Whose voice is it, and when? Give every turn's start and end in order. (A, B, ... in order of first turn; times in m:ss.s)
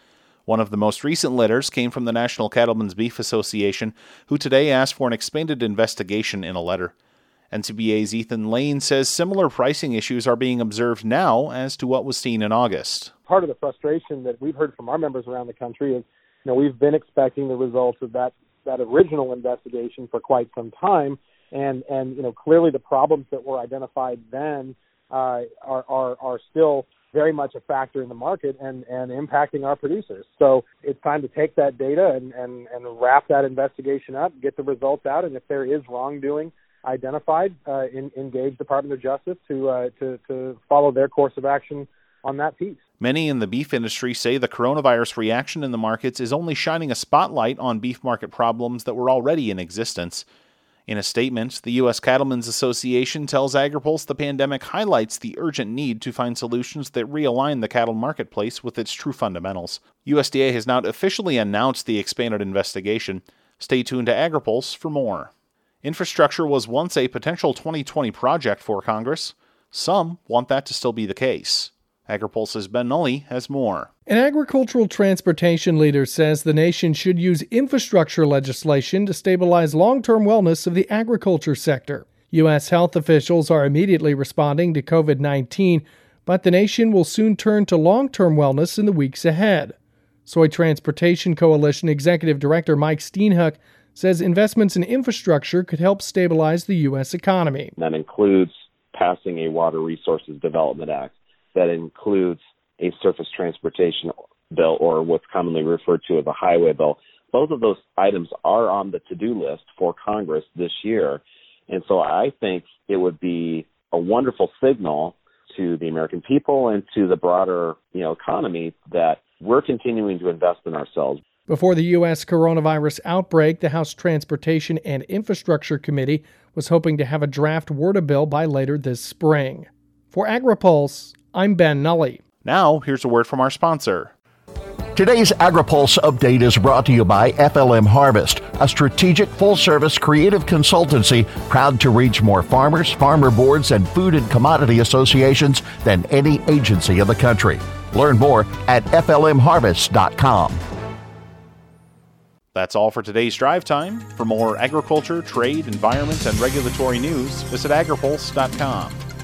0:00.4-0:06.9 A
0:07.5-0:13.1 A
0:13.3-0:42.8 B
0:43.0-0:50.2 A
0:50.9-1:05.3 A
1:05.8-1:13.9 A
1:14.1-1:29.8 C
1:30.3-1:37.7 C
1:37.8-2:01.2 D
2:01.5-2:12.2 C
2:12.4-2:14.1 A
2:14.9-2:30.6 E
2:32.5-2:39.0 A